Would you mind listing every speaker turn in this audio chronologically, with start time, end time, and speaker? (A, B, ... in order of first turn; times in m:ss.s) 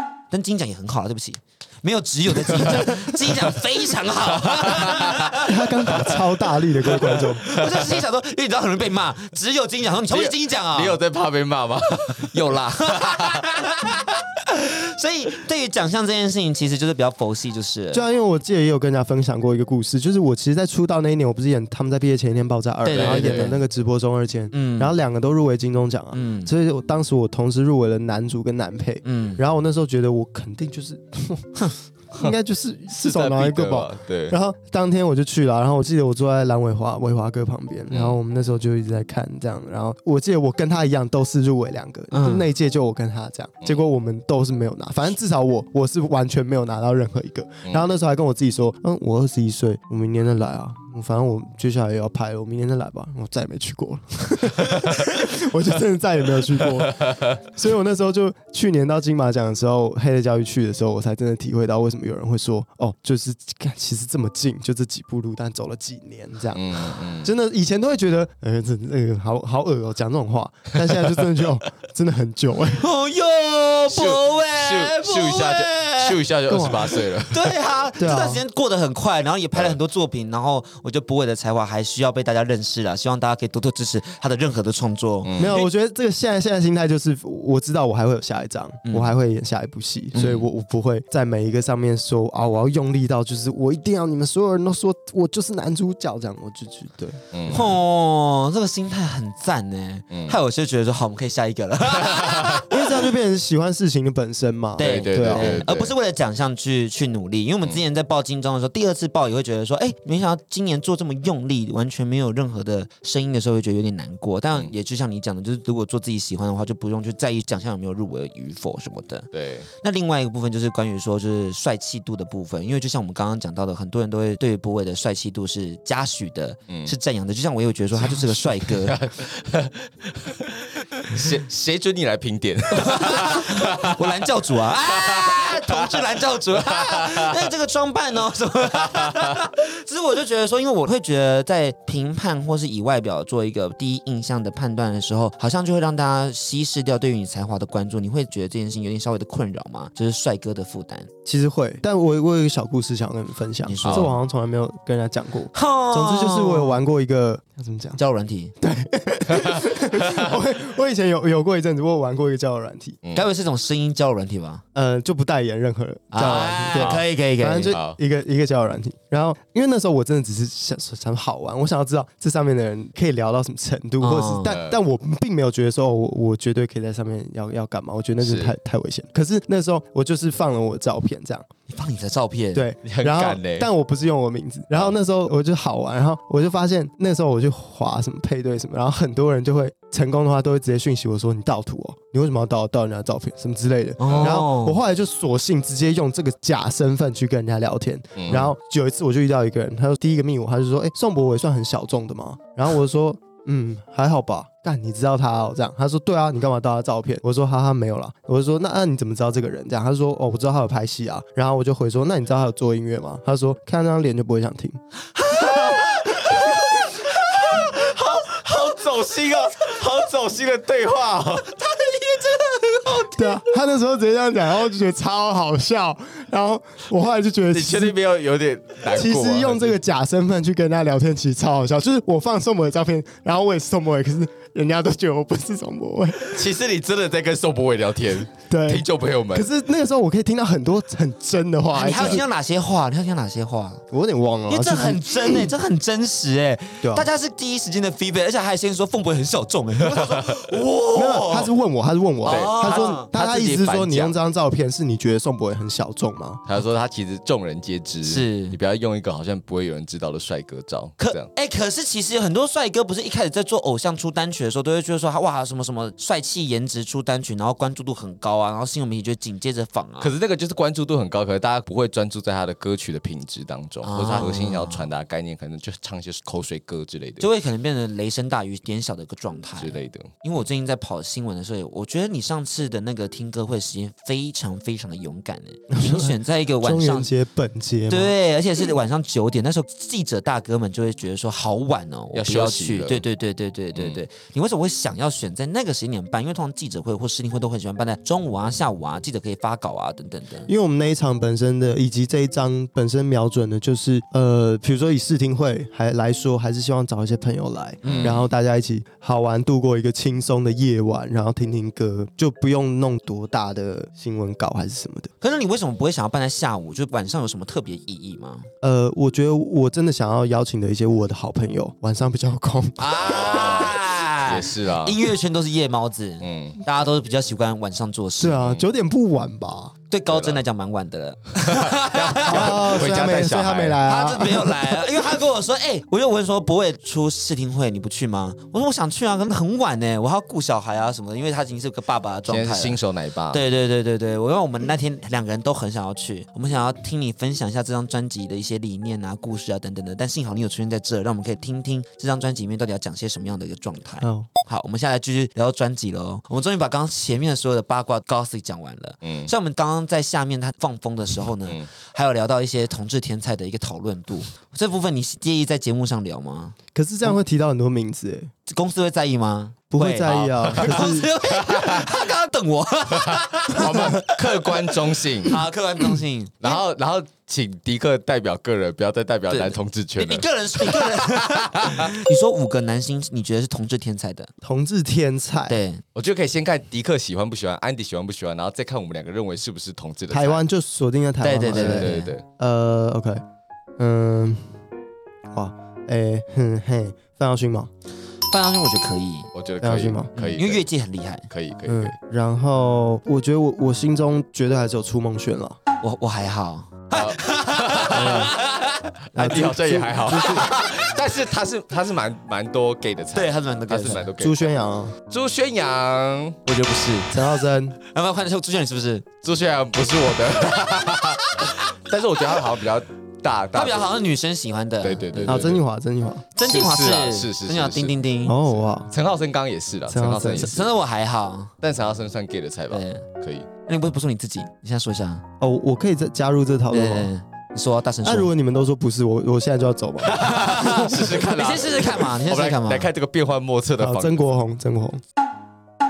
0:00.3-0:05.5 A
0:02.6-0:02.9 B
0:04.4-0:08.0 B
0:05.4-0:07.4 C
0:07.1-0:11.0 A
0:10.1-0:13.8 B
0:12.3-0:18.0 A
0:17.9-1:12.8 C
0:22.8-0:23.6 A
0:22.9-0:23.5 B
0:24.5-0:24.9 A
0:26.1-0:26.5 A
0:29.0-0:29.4 A
0:33.0-0:34.4 B
0:37.9-0:38.2 B
0:42.1-0:42.5 A
0:57.0-0:57.3 B
1:06.5-1:07.3 B
1:12.7-1:16.2 A
1:13.9-1:17.5 B
1:16.5-1:16.9 C
1:17.2-1:25.7 A
1:18.0-1:18.4 C
1:25.2-1:25.6 B
1:25.4-1:37.2 C
1:28.8-1:29.1 A
1:30.1-1:30.4 A
1:30.2-1:30.4 B
1:37.3-1:37.8 B
1:37.5-1:42.8 A
1:40.1-1:40.4 B
1:42.0-1:42.6 B
1:42.7-1:45.6 C
1:44.8-1:59.3 A
1:44.8-1:45.9 B
1:59.3-1:59.7 B
1:59.8-2:09.0 A
2:06.7-2:06.9 B
2:08.0-2:17.5 B
2:12.7-2:31.1 A
2:18.8-2:19.4 B
2:31.2-2:38.0 C
2:33.6-2:34.1 A
2:33.8-2:34.1 B
2:35.5-2:36.8 A
2:38.0-2:38.5 A
2:38.6-2:43.0 C
2:39.3-2:40.3 B
2:43.1-2:44.6 A
2:44.7-3:01.5 C
2:46.1-2:47.8 A
2:46.7-2:47.0 B
2:47.7-2:48.0 B
2:54.0-2:54.6 A
2:54.5-2:54.8 B
2:58.2-2:58.5 B
3:01.7-3:02.7 A
3:02.5-3:34.8 C
3:02.8-3:03.7 B
3:14.0-3:14.8 A
3:14.0-3:14.4 B
3:18.2-3:18.5 B
3:35.2-3:37.8 A
3:35.7-3:36.7 B
3:37.3-3:41.6 B
3:41.6-3:43.3 A
3:43.1-3:47.9 C
3:47.5-3:49.7 B
3:48.9-3:56.5 C
3:56.3-3:59.5 B
3:58.5-4:02.2 C
4:01.7-4:03.8 A
4:01.9-4:02.2 B
4:03.9-4:05.5 C
4:04.5-4:11.5 A
4:06.8-4:07.1 C
4:09.9-4:10.6 B
4:10.9-4:16.4 C
4:12.2-4:13.1 A
4:12.2-4:14.1 B
4:16.4-4:21.3 B
4:18.0-4:18.6 A
4:21.0-4:30.1 A
4:30.0-4:37.3 B
4:33.8-4:34.9 A
4:37.2-4:47.1 A
4:39.6-4:40.1 B
4:45.7-4:48.1 C
4:47.9-5:00.5 A
4:52.1-4:53.0 B
4:53.7-4:54.0 B
5:00.5-5:15.1 C
5:07.8-5:08.2 A
5:07.8-5:08.2 B
5:15.2-5:18.5 A
5:18.6-5:23.6 C
5:22.8-5:28.4 A
5:23.0-5:25.1 B
5:26.2-5:26.6 B
5:28.2-5:29.7 C
5:29.9-5:32.8 A
5:30.1-5:30.4 B
5:31.4-5:33.8 B
5:32.2-5:34.9 C
5:33.8-5:42.8 A
5:42.3-5:43.4 B
5:43.3-6:06.6 A
5:54.0-5:54.3 C
5:59.0-5:59.3 B
6:06.7-6:08.3 C
6:08.4-6:14.6 A
6:09.7-6:11.1 C
6:10.6-6:10.8 B
6:11.4-6:12.0 B
6:13.0-6:15.4 B
6:13.6-6:14.0 C
6:15.2-6:16.6 A
6:16.4-6:21.9 B
6:19.3-6:24.3 A
6:24.4-6:25.6 C
6:25.5-6:25.8 A
6:25.9-6:30.4 B
6:30.1-6:33.2 C
6:31.2-6:32.1 A
6:31.5-6:32.2 B
6:33.8-6:34.6 C
6:35.3-6:37.7 C
6:38.3-6:39.3 A
6:39.3-6:40.6 B
6:39.6-6:40.1 C
6:40.1-6:41.2 A
6:41.3-6:41.9 B
6:41.6-6:45.6 C
6:45.8-6:48.9 A
6:46.9-6:48.4 B
6:47.9-6:48.3 C
6:49.1-6:54.5 B
6:49.1-6:50.5 C
6:50.4-6:50.6 A
6:53.1-6:54.1 A
6:54.1-6:54.9 C
6:55.1-6:56.4 B
6:56.4-6:57.1 A
6:57.1-6:57.8 C
6:57.8-6:59.1 A
6:59.2-7:03.9 B
7:03.5-7:05.4 A
7:04.8-7:05.6 B
7:05.3-7:06.2 C
7:06.3-7:08.4 A
7:06.4-7:08.0 B
7:08.2-7:08.9 C
7:08.9-7:10.7 B
7:09.9-7:10.5 C
7:10.4-7:11.5 A
7:11.6-7:13.5 B
7:12.7-7:13.0 A
7:13.6-7:15.2 A
7:15.4-7:17.1 C
7:16.7-7:18.3 A
7:18.0-7:20.3 C
7:20.0-7:24.3 B
7:20.1-7:22.9 A
7:23.8-7:25.0 C